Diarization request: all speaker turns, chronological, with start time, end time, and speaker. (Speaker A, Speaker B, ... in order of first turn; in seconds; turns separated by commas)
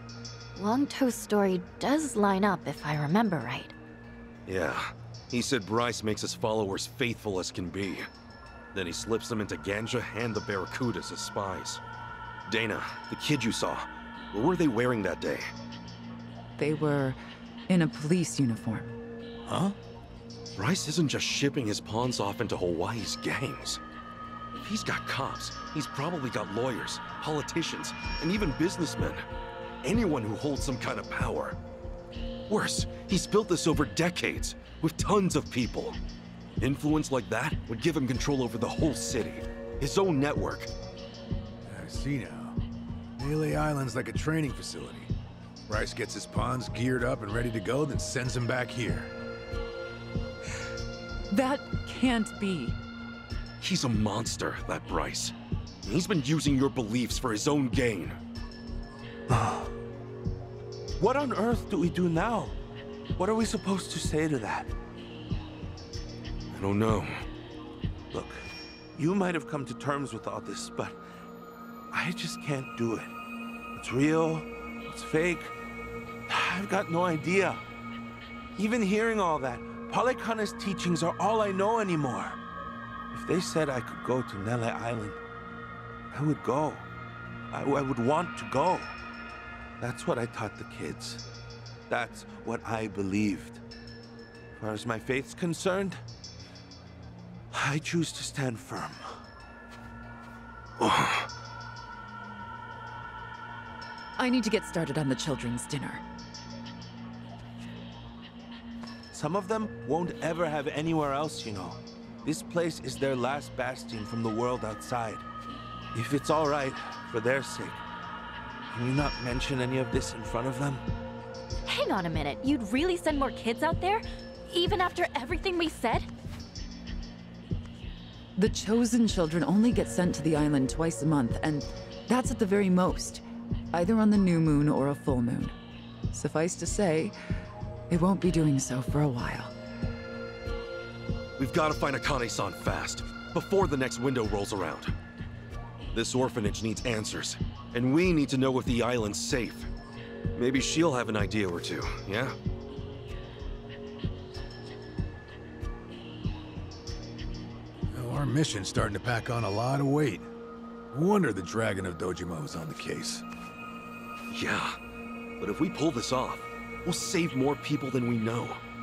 Speaker A: 0.6-3.7, Speaker B: 4.5-8.1, Speaker B: 8.7-11.8, Speaker B: 12.5-15.5, Speaker C: 16.6-18.9, Speaker D: 19.5-19.8, Speaker B: 20.6-23.8, Speaker B: 24.6-29.2, Speaker B: 29.8-31.6, Speaker B: 32.5-36.0, Speaker B: 36.6-40.7, Speaker D: 41.7-42.6, Speaker D: 43.2-45.1, Speaker D: 45.7-49.1, Speaker C: 51.3-52.8, Speaker B: 53.6-58.2, Speaker E: 61.0-62.6, Speaker E: 63.2-64.7, Speaker B: 66.5-67.2, Speaker E: 68.1-71.0, Speaker E: 71.9-73.1, Speaker E: 73.8-75.5, Speaker E: 76.3-77.6, Speaker E: 78.6-82.4, Speaker E: 83.1-85.2, Speaker E: 86.1-86.9, Speaker E: 87.5-89.0, Speaker E: 89.8-91.2, Speaker E: 91.9-93.6, Speaker E: 94.6-96.0, Speaker E: 97.5-99.2, Speaker B: 100.8-101.3, Speaker C: 104.2-106.0, Speaker E: 109.1-115.2, Speaker E: 115.9-117.8, Speaker E: 118.7-120.8, Speaker A: 121.7-126.1, Speaker C: 128.4-135.5, Speaker C: 136.1-137.2, Speaker C: 137.9-139.5, Speaker B: 141.4-144.9, Speaker B: 145.9-149.7, Speaker B: 150.3-152.4, Speaker D: 157.9-160.3, Speaker D: 160.9-163.2, Speaker B: 164.3-164.8, Speaker B: 165.4-168.6